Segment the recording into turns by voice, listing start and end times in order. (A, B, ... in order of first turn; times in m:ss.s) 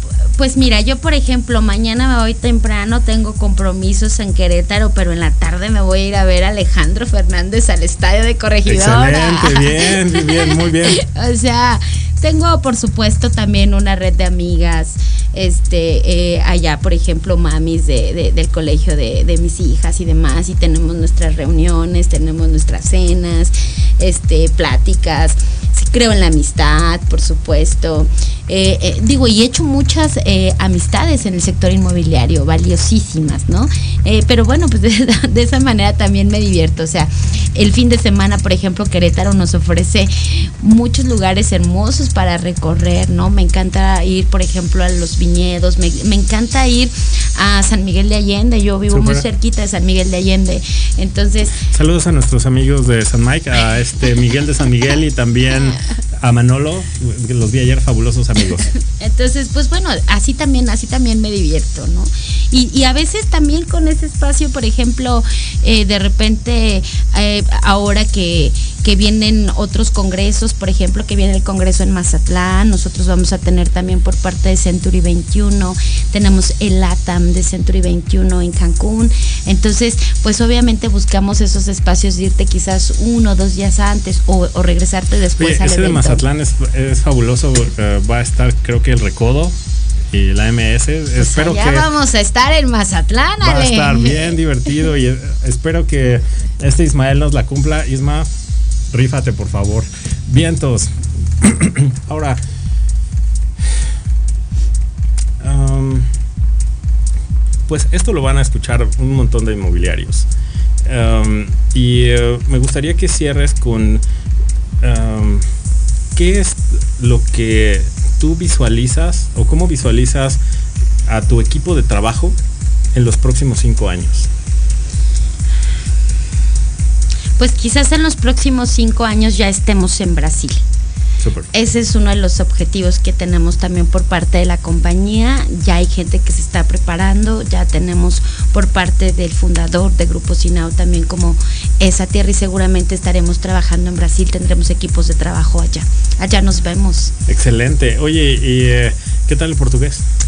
0:00.3-0:51.6 A
0:08.6-0:11.0 B
0:48.9-0:49.2 B
0:51.7-0:58.7 B
0:58.7-1:26.2 A
1:25.4-1:29.6 B
1:30.1-1:31.9 B
1:31.2-1:34.4 A
1:33.4-1:38.3 B
1:38.9-1:42.4 B
1:45.4-1:46.1 B
1:47.7-1:50.3 B
1:50.8-1:54.0 B
1:54.8-1:55.4 B
1:56.1-2:00.4 B
2:01.1-2:02.4 B
2:02.9-2:04.3 B
2:07.4-2:10.6 A
2:11.2-2:11.5 B
2:11.5-2:27.1 A
2:27.3-2:30.0 B